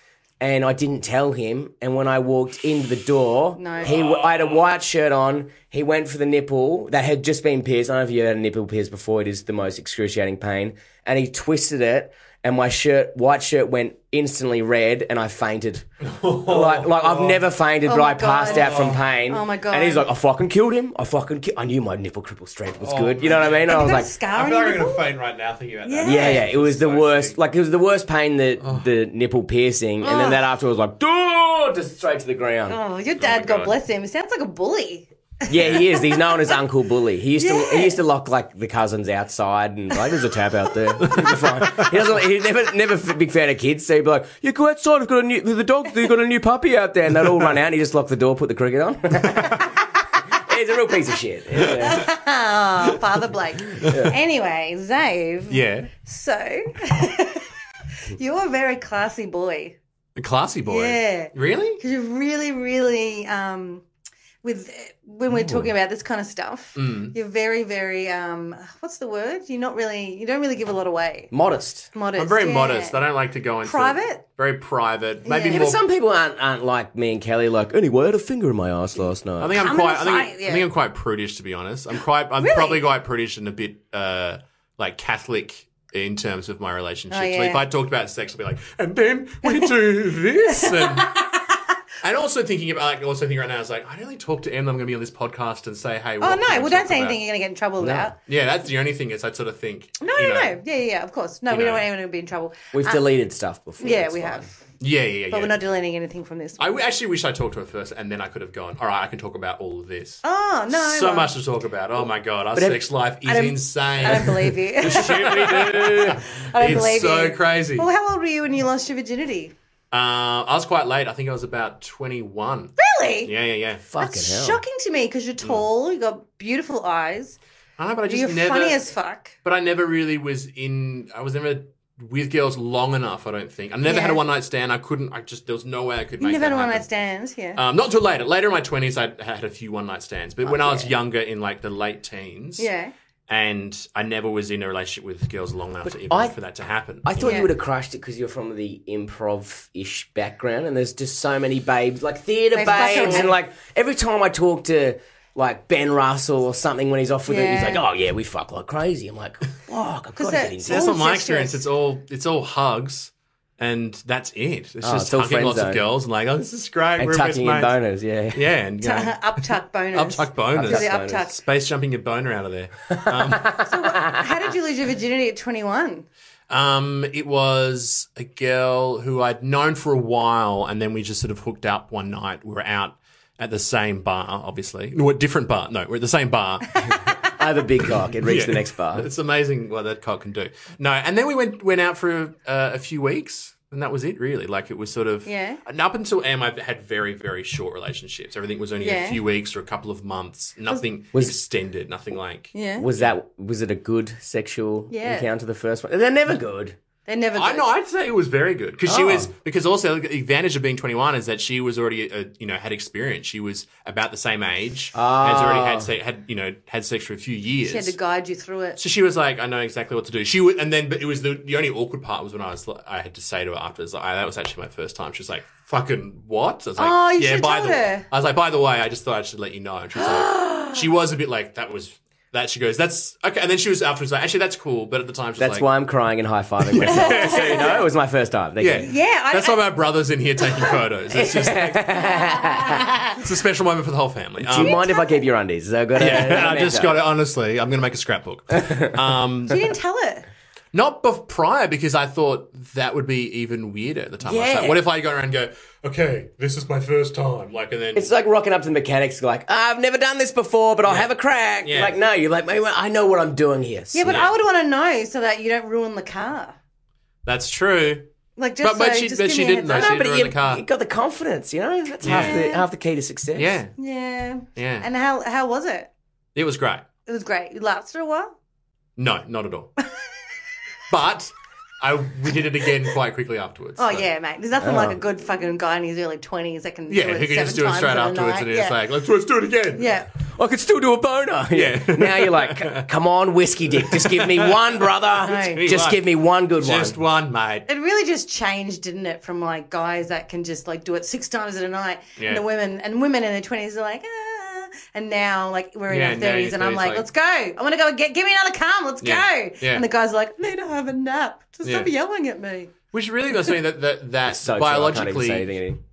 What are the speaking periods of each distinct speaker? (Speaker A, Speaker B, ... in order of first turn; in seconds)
Speaker A: 0.4-15.8, 16.4-24.1, 26.0-32.8, 35.5-52.1, 53.8-54.1, 71.3-71.9, 75.4-79.6, 97.8-98.1, 102.7-104.5, 112.5-112.8, 114.0-116.2, 123.9-124.6, 146.1-146.3, 147.0-160.9, 164.8-165.8, 167.0-168.4, 170.5-171.2, 173.0-174.2, 187.3-189.1, 202.8-206.8, 208.8-209.3, 214.9-215.9, 230.0-230.7, 235.4-238.9, 241.1-243.0, 244.4-247.0, 248.5-249.0, 254.2-254.8, 257.9-264.2, 269.7-273.6, 284.6-285.0, 290.3-297.0, 314.2-315.8
Speaker B: 3.5-3.9, 17.8-20.1, 23.6-25.1, 25.8-26.5, 30.0-30.4, 32.7-36.6, 37.4-38.0, 51.8-57.4, 58.0-59.8, 60.6-63.8, 64.4-71.3, 71.9-73.0, 73.6-74.2, 75.2-75.7, 79.5-80.7, 82.4-82.8, 87.1-87.6, 89.4-89.7, 90.5-91.6, 96.2-98.2, 100.0-103.0, 103.8-104.5, 105.3-106.8, 110.2-111.3, 113.2-119.5, 122.8-123.3, 124.0-127.4, 128.1-129.3, 133.8-134.2, 136.2-137.6, 140.4-140.9, 142.6-142.9, 147.2-147.5, 152.5-153.3, 157.3-157.8, 160.2-161.6, 168.8-171.4, 173.6-176.1, 195.2-195.6, 198.8-199.2, 202.5-202.8, 204.9-205.3, 207.1-207.7, 217.6-218.8, 226.8-228.0, 236.8-237.8, 238.8-239.6, 242.0-243.1, 244.6-245.2, 249.5-250.2, 263.9-266.6, 268.4-270.0, 272.0-272.6, 273.8-275.9, 277.1-278.4, 283.8-288.8, 289.8-290.1, 295.2-295.6, 297.7-312.7
Speaker C: 3.8-4.4, 16.0-17.4, 18.4-19.0, 22.8-27.3, 28.6-28.9, 33.2-33.7, 41.0-41.8, 51.6-51.9, 53.8-54.1, 55.5-55.9, 60.2-61.8, 66.8-67.1, 72.1-75.8, 79.4-91.2, 92.0-97.2, 98.2-100.6, 101.5-101.8, 104.8-105.6, 106.6-117.9, 119.9-122.7, 123.2-123.8, 127.8-128.8, 129.4-136.9, 137.6-142.7, 143.3-147.1, 160.6-167.8, 168.3-173.6, 176.5-187.2, 188.2-203.1, 207.3-217.9, 218.8-235.7, 236.6-237.8, 238.6-242.0, 243.1-244.8, 245.9-249.7, 250.7-258.1, 260.8-261.1, 261.6-261.9, 264.0-264.3, 267.2-268.1, 268.6-270.6, 272.0-272.4, 273.3-273.7, 274.5-274.9, 276.3-276.8, 279.0-279.7, 280.9-284.1, 286.9-289.9, 291.5-292.9, 293.8-296.0, 296.6-297.6, 302.2-302.4, 305.9-307.1, 309.0-309.8, 311.6-311.9, 312.9-315.5